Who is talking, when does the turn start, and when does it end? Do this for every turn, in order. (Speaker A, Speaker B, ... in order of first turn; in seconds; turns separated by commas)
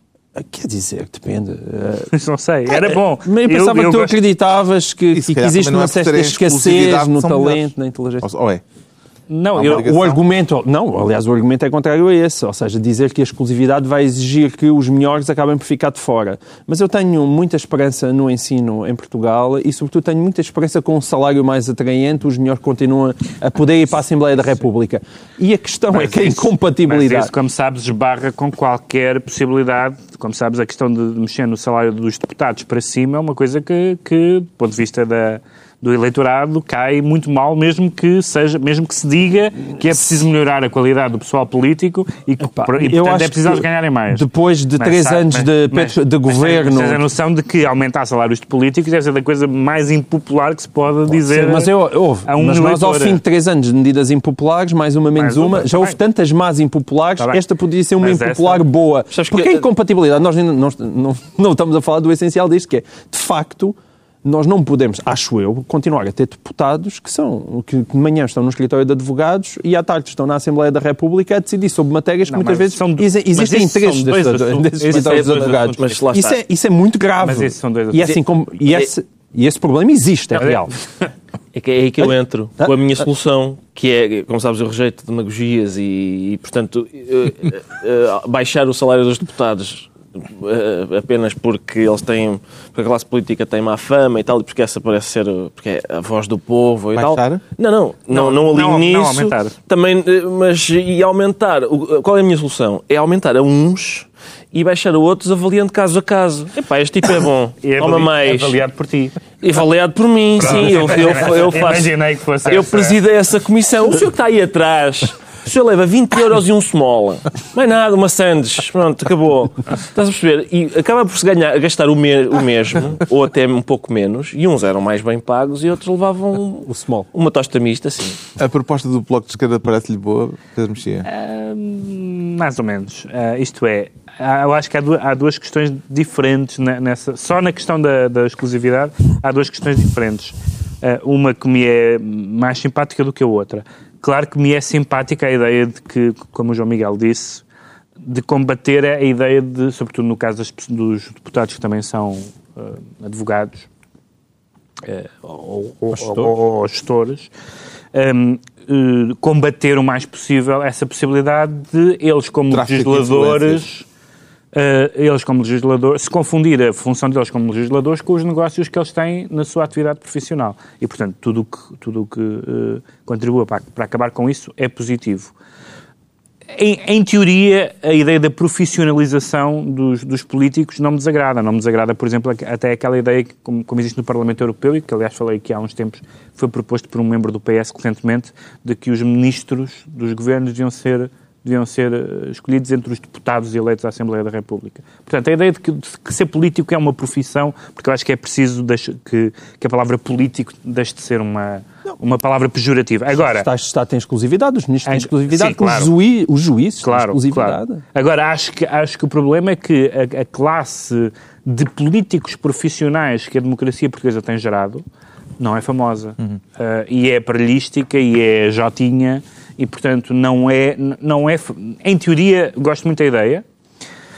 Speaker A: 0.3-2.1, Speaker B: 2.1-4.1, Speaker A: 2.7-8.3, Speaker C: 5.1-8.6, Speaker B: 9.3-9.8, Speaker C: 9.5-10.2, Speaker A: 9.6-27.3, Speaker B: 25.9-44.3, Speaker A: 42.4-47.0, Speaker B: 44.8-51.7, Speaker A: 51.1-80.7, Speaker B: 52.3-53.2, Speaker B: 55.2-56.0, Speaker B: 58.0-58.6, Speaker D: 59.1-59.7, Speaker B: 72.3-75.8, Speaker D: 74.9-76.4, Speaker B: 77.2-78.2, Speaker B: 80.4-80.7, Speaker D: 81.5-108.6, Speaker C: 97.0-97.4, Speaker B: 98.1-99.5, Speaker B: 107.6-109.2, Speaker D: 109.4-128.2, Speaker B: 110.4-113.0, Speaker A: 126.7-127.1, Speaker C: 128.4-131.1, Speaker B: 131.1-147.4, Speaker B: 148.1-153.7, Speaker B: 154.8-157.3, Speaker A: 155.9-156.3, Speaker B: 157.9-163.9, Speaker C: 162.5-163.6, Speaker B: 164.5-175.3, Speaker B: 176.5-203.5, Speaker A: 203.1-207.8, Speaker B: 204.9-205.9, Speaker B: 206.8-214.8, Speaker B: 215.4-223.4